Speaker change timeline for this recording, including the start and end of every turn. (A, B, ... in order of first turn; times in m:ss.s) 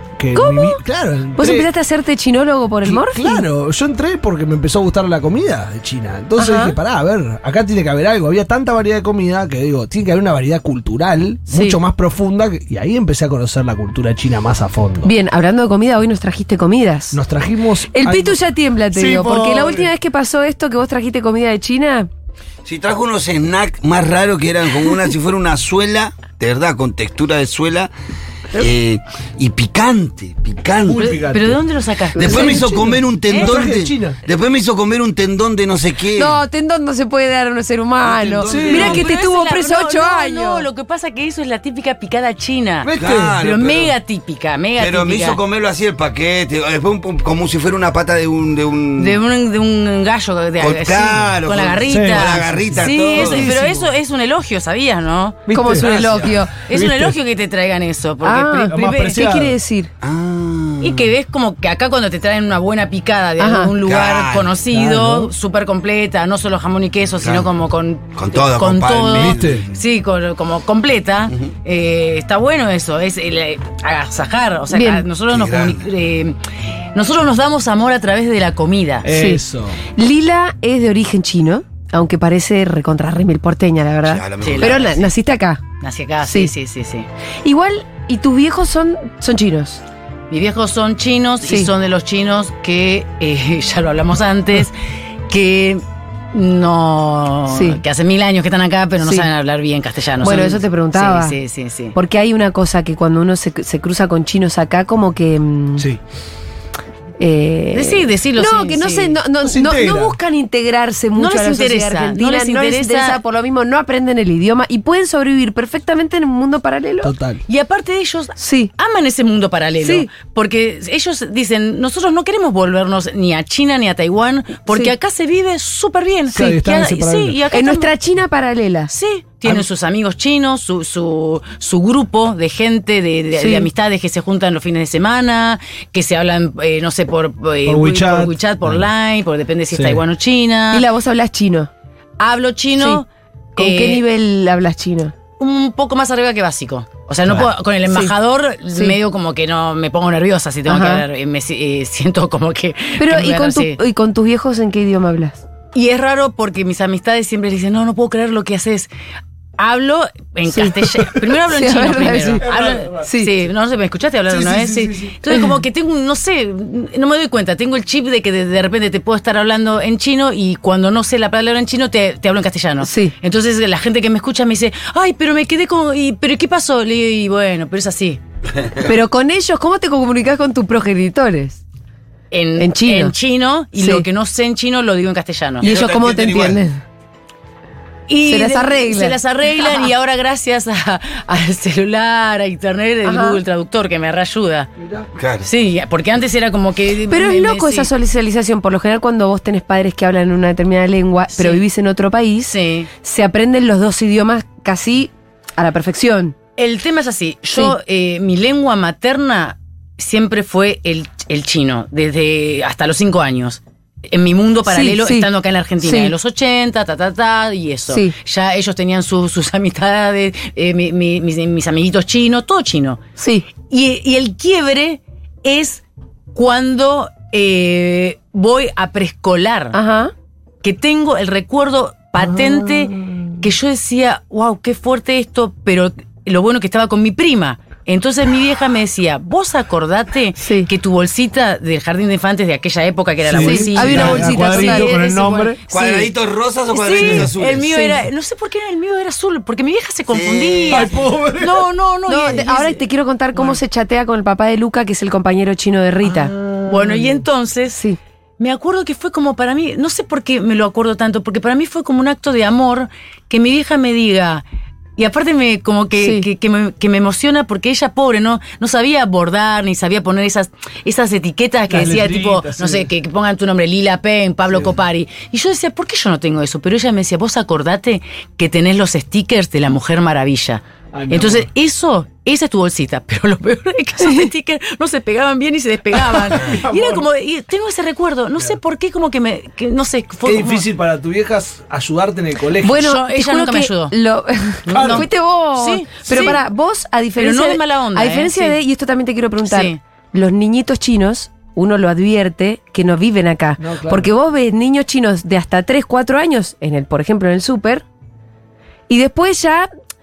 0:00.2-0:01.7 A
0:00.3-0:00.8 B
0:01.4-0:03.5 B
0:02.8-0:15.1 A
0:06.4-0:06.8 B
0:11.5-0:11.8 B
0:15.0-0:17.2 B
0:17.1-0:18.4 A
0:17.9-0:22.1 B
0:18.9-0:19.9 A
0:22.6-0:27.9 C
0:28.5-0:31.1 C
0:30.8-0:31.6 A
0:31.0-0:33.6 D
0:32.2-0:36.4 C
0:32.2-0:32.8 B
0:32.4-0:34.2 A
0:36.1-0:40.7 B
0:38.0-0:39.0 C
0:38.4-0:39.1 A
0:38.7-0:45.4 D
0:42.8-0:43.4 A
0:42.9-0:43.9 C
0:44.8-0:49.2 C
0:49.0-0:55.5 D
0:50.6-0:53.5 C
0:51.8-0:53.9 A
0:55.5-0:56.0 A
0:55.5-0:56.5 B
0:55.8-0:56.3 C
0:56.6-0:59.2 D
0:56.7-0:57.2 A
0:58.2-0:59.9 B
0:58.7-0:59.6 A
1:00.0-1:01.1 C
1:00.8-1:16.4 D
1:03.4-1:03.7 B
1:03.8-1:04.6 C
1:04.7-1:05.3 A
1:07.2-1:07.5 C
1:08.2-1:09.7 C
1:09.1-1:09.6 A
1:14.7-1:15.0 B
1:15.3-1:15.9 C
1:16.9-1:19.1 D
1:19.0-1:19.8 A
1:19.1-1:19.4 B
1:20.0-1:25.6 B
1:24.0-1:25.1 C
1:24.4-1:24.8 D
1:25.8-1:27.1 D
1:26.2-1:26.5 B
1:27.4-1:29.8 B
1:30.3-1:34.8 D
1:31.4-1:31.7 B
1:35.3-1:42.0 D
1:37.5-1:37.8 B
1:39.0-1:39.3 B
1:40.2-1:41.4 B
1:41.9-1:45.9 B
1:47.2-1:57.1 B
1:47.7-1:49.2 D
1:49.4-1:50.2 A
1:51.2-1:53.2 D
1:57.0-1:57.4 A
1:57.5-2:07.9 D
1:58.4-1:58.7 B
1:59.8-2:00.1 B
2:06.3-2:07.4 A
2:07.5-2:08.9 B
2:08.9-2:20.8 D
2:13.4-2:13.7 B
2:17.6-2:18.9 A
2:19.7-2:20.0 A
2:20.7-2:21.7 B
2:22.2-2:23.0 D
2:23.6-2:25.1 B
2:23.6-2:24.0 D
2:25.4-2:33.8 D
2:30.7-2:31.0 B
2:33.0-2:35.4 B
2:35.7-2:38.9 D
2:39.6-2:58.2 D
2:40.5-2:40.8 B
2:41.4-2:42.4 B
2:42.0-2:43.1 A
2:43.0-2:43.3 B
2:44.3-2:45.2 A
2:52.8-2:53.1 B
2:58.8-3:01.6 B
3:02.3-3:05.7 D
3:02.6-3:03.2 B
3:03.7-3:04.0 B
3:05.6-3:06.6 C
3:05.6-3:06.8 B
3:08.1-3:14.7 D
3:08.2-3:09.8 B
3:13.0-3:13.4 B
3:14.8-3:15.1 A
3:15.2-3:15.5 C
3:15.4-3:17.9 D
3:17.1-3:26.3 B
3:21.3-3:21.6 D
3:22.5-3:22.9 D
3:26.6-3:43.0 D
3:34.7-3:35.3 B
3:35.8-3:36.1 B
3:43.2-3:43.5 B
3:43.6-3:49.8 D
3:49.7-3:50.1 B
3:50.6-4:06.1 D
3:52.2-3:53.3 A
4:00.4-4:00.7 B
4:03.2-4:05.6 A
4:03.4-4:05.0 B
4:05.7-4:07.7 C
4:06.7-4:12.8 D
4:07.0-4:07.3 A
4:07.7-4:08.0 B
4:10.1-4:10.9 C
4:10.7-4:11.7 A
4:12.1-4:16.3 B
4:16.0-4:17.2 A
4:16.6-4:17.8 D
4:18.4-4:24.4 D
4:25.0-4:50.6 D
4:26.0-4:26.3 B
4:31.7-4:32.9 A
4:40.9-4:41.5 A
4:44.0-4:44.3 B
4:46.0-4:47.0 A
4:50.2-4:52.9 A
4:52.6-5:07.8 B
4:52.8-4:54.0 D
4:54.6-4:56.4 D
4:54.7-4:55.1 A
4:57.2-4:58.6 D
4:59.4-4:59.8 D
5:03.6-5:04.1 A
5:08.9-5:09.7 B